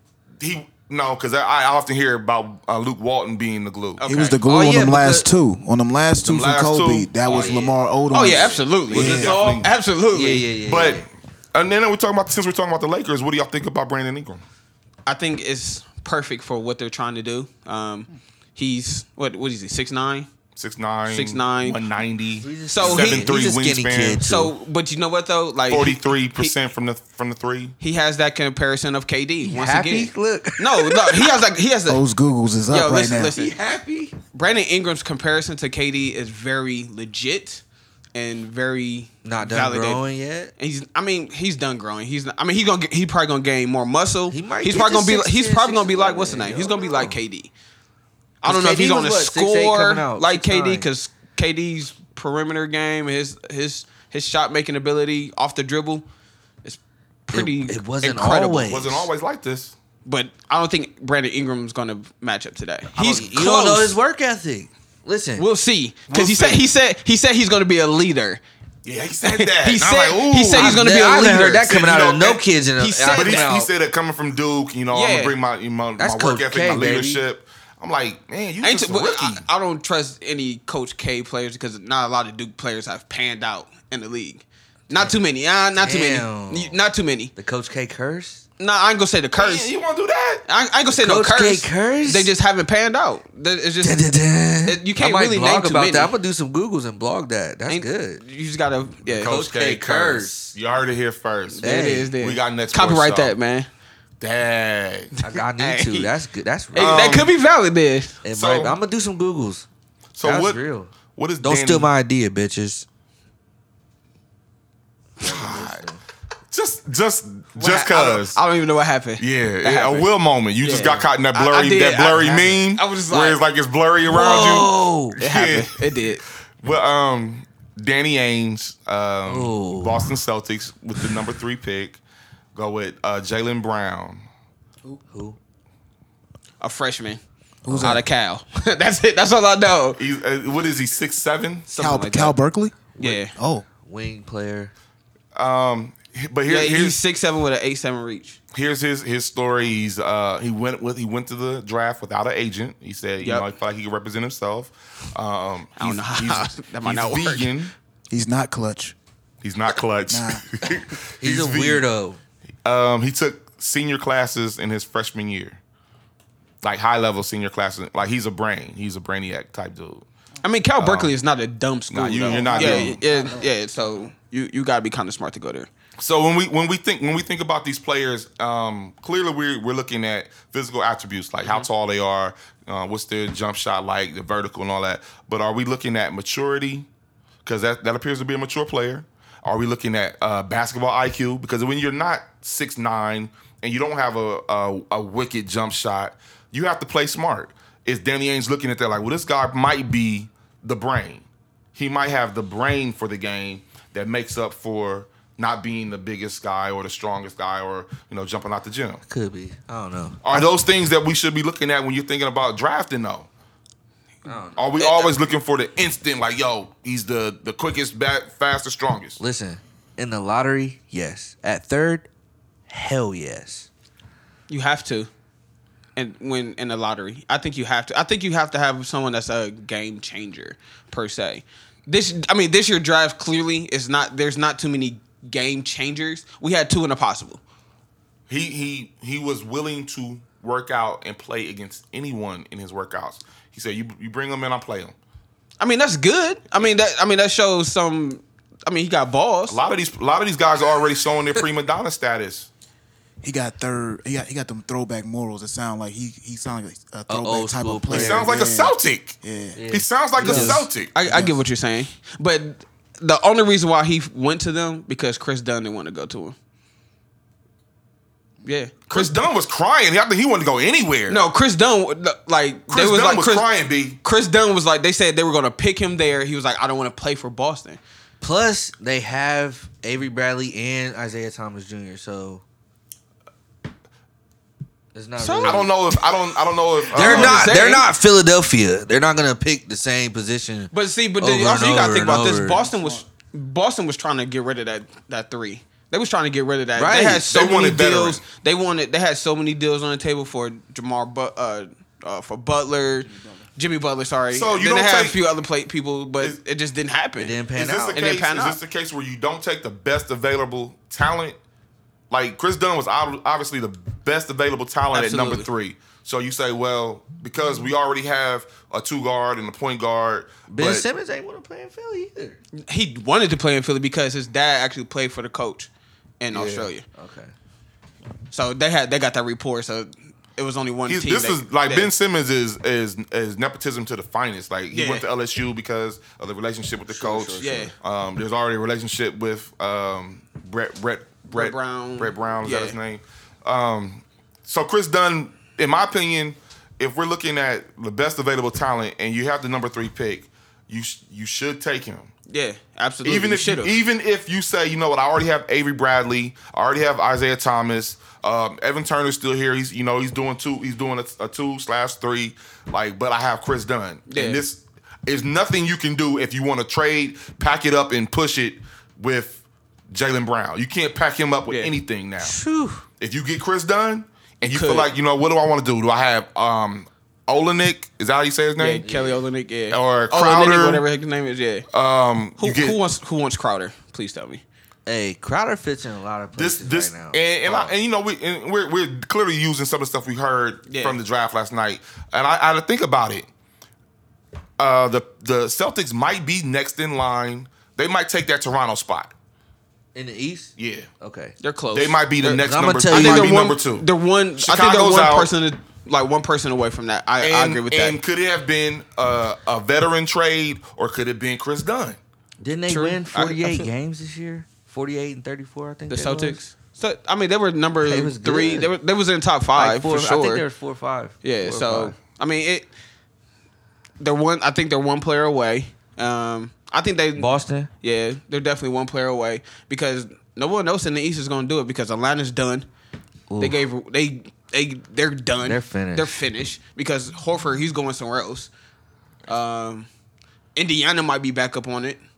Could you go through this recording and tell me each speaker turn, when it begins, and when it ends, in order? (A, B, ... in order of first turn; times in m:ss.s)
0:00.4-0:04.0 A
0:04.0-0:04.4 B
0:04.0-0:09.4 C
0:04.4-0:05.3 D
0:06.2-0:07.6 A
0:07.3-0:10.5 B
0:08.9-0:09.7 A
0:08.9-0:11.0 D
0:10.6-0:14.4 A
0:15.0-0:20.3 B
0:20.6-0:24.2 A
0:21.1-0:21.8 B
0:22.4-0:24.5 D
0:22.7-0:23.3 B
0:24.2-0:26.5 B
0:25.7-0:27.7 A
0:27.8-0:32.0 B
0:29.4-0:31.4 D
0:31.9-0:33.3 C
0:32.7-0:33.6 B
0:33.3-0:34.2 D
0:34.3-0:37.6 B
0:38.1-0:40.0 B
0:39.2-0:40.5 D
0:40.6-0:47.5 B
0:44.3-0:47.2 D
0:48.4-0:56.0 B
0:48.4-0:50.9 D
0:56.6-0:59.0 B
0:57.3-0:59.1 D
0:58.6-0:59.7 A
1:00.0-1:04.0 B
1:03.0-1:05.4 D
1:05.4-1:08.4 B
1:06.1-1:06.6 A
1:08.8-1:10.9 A
1:09.2-1:11.7 B
1:10.5-1:13.7 D
1:11.6-1:12.4 A
1:12.8-1:13.5 B
1:13.1-1:19.4 A
1:14.9-1:15.3 B
1:16.0-1:17.2 D
1:18.6-1:27.3 B
1:25.8-1:26.8 D
1:27.4-1:28.4 D
1:28.6-1:29.7 B
1:29.4-1:30.4 A
1:30.5-1:34.0 B
1:30.9-1:32.3 D
1:33.8-1:38.2 D
1:34.6-1:36.1 B
1:37.7-1:39.4 B
1:39.1-1:43.3 A
1:39.2-1:40.6 D
1:41.5-1:43.7 B
1:41.6-1:42.1 D
1:44.2-1:45.1 A
1:45.2-1:46.1 B
1:45.2-1:47.2 D
1:46.7-1:48.2 B
1:46.8-1:47.3 A
1:48.2-1:49.6 D
1:48.3-1:48.8 A
1:50.1-1:50.6 A
1:50.2-1:52.8 D
1:51.1-1:51.9 A
1:55.2-1:56.0 D
1:55.2-1:55.8 A
1:56.5-1:58.4 A
1:57.6-2:00.1 B
1:59.2-2:12.0 A
2:00.6-2:03.4 B
2:04.0-2:05.2 D
2:05.2-2:06.2 B
2:09.2-2:10.1 D
2:12.5-2:14.2 A
2:15.1-2:15.4 D
2:16.6-2:20.0 B
2:17.6-2:18.0 C
2:20.0-2:21.7 A
2:21.7-2:22.3 B
2:21.7-2:23.6 C
2:23.0-2:23.3 B
2:23.8-2:24.7 D
2:25.3-2:27.0 A
2:26.5-2:28.4 B
2:28.5-2:37.7 A
2:33.2-2:33.5 B
2:35.8-2:37.6 B
2:38.1-2:39.0 C
2:39.4-2:41.8 A
2:40.1-2:40.4 C
2:41.2-2:42.2 D
2:42.6-2:45.6 A
2:46.6-2:50.0 A
2:50.4-2:55.7 B
2:50.8-2:51.1 A
2:51.9-2:53.0 A
2:52.2-2:53.5 C
2:56.0-3:06.9 A
3:01.4-3:01.7 B
3:07.4-3:29.0 A
3:29.0-3:30.4 D
3:30.2-3:33.3 A
3:34.2-3:34.7 D
3:34.5-3:39.2 A
3:34.8-3:35.1 B
3:39.2-3:42.1 D
3:42.7-3:43.7 D
3:44.5-3:45.1 B
3:46.0-3:57.4 B
3:58.3-4:04.9 A
4:05.6-4:09.6 B
4:09.5-4:12.5 A
4:13.2-4:19.6 C
4:17.1-4:18.3 D
4:17.9-4:20.9 A
4:19.5-4:20.7 D
4:20.2-4:26.3 B
4:20.2-4:20.6 C
4:21.1-4:21.3 C
4:28.4-4:29.2 B
4:28.9-4:31.2 A
4:31.1-4:33.5 B
4:32.7-4:34.0 A
4:34.0-4:37.8 B
4:38.2-4:42.4 D
4:44.9-4:46.0 D
4:45.2-4:45.6 B
4:45.4-4:47.6 A
4:46.9-4:52.6 D
4:46.9-4:47.8 B
4:50.7-5:07.4 B
4:52.6-4:53.0 C
4:56.8-4:57.3 D
4:57.3-4:58.2 A
5:04.3-5:05.2 A
5:07.2-5:08.0 D
5:07.5-5:11.4 A
5:07.9-5:08.6 B
5:12.1-5:20.8 A
5:14.9-5:15.5 B
5:20.5-5:22.4 D
5:22.6-5:26.8 B
5:26.3-5:26.7 A
5:26.9-5:27.3 D
5:28.3-5:31.9 B
5:30.9-5:52.1 A
5:34.7-5:35.0 B
5:36.9-5:37.7 D
5:37.4-5:37.7 B
5:41.3-5:42.8 B
5:52.3-5:53.8 B
5:53.0-6:12.3 A
6:04.1-6:04.4 B
6:12.2-6:12.8 D
6:13.0-6:18.9 A
6:14.4-6:14.9 B
6:18.6-6:21.7 B
6:18.8-6:19.2 D
6:19.7-6:20.8 A
6:21.7-6:22.8 A
6:22.4-6:24.4 B
6:24.8-6:27.7 D
6:26.4-6:33.3 A
6:30.7-6:31.0 B
6:34.6-6:39.1 A
6:39.9-6:41.4 D
6:40.6-6:40.9 A
6:41.4-6:48.0 B
6:41.7-6:43.8 A
6:42.2-6:43.4 D
6:44.4-6:45.3 A
6:47.2-6:52.0 A
6:52.4-6:56.4 D
6:52.7-6:53.6 B
6:55.9-7:00.4 B
6:57.8-6:58.7 D
6:59.6-7:01.9 D
7:01.2-7:02.7 B
7:04.0-7:12.6 B
7:07.2-7:07.7 D
7:13.3-7:13.6 D
7:13.4-7:18.5 B
7:15.4-7:16.2 D
7:19.3-7:19.9 B
7:20.6-7:22.0 B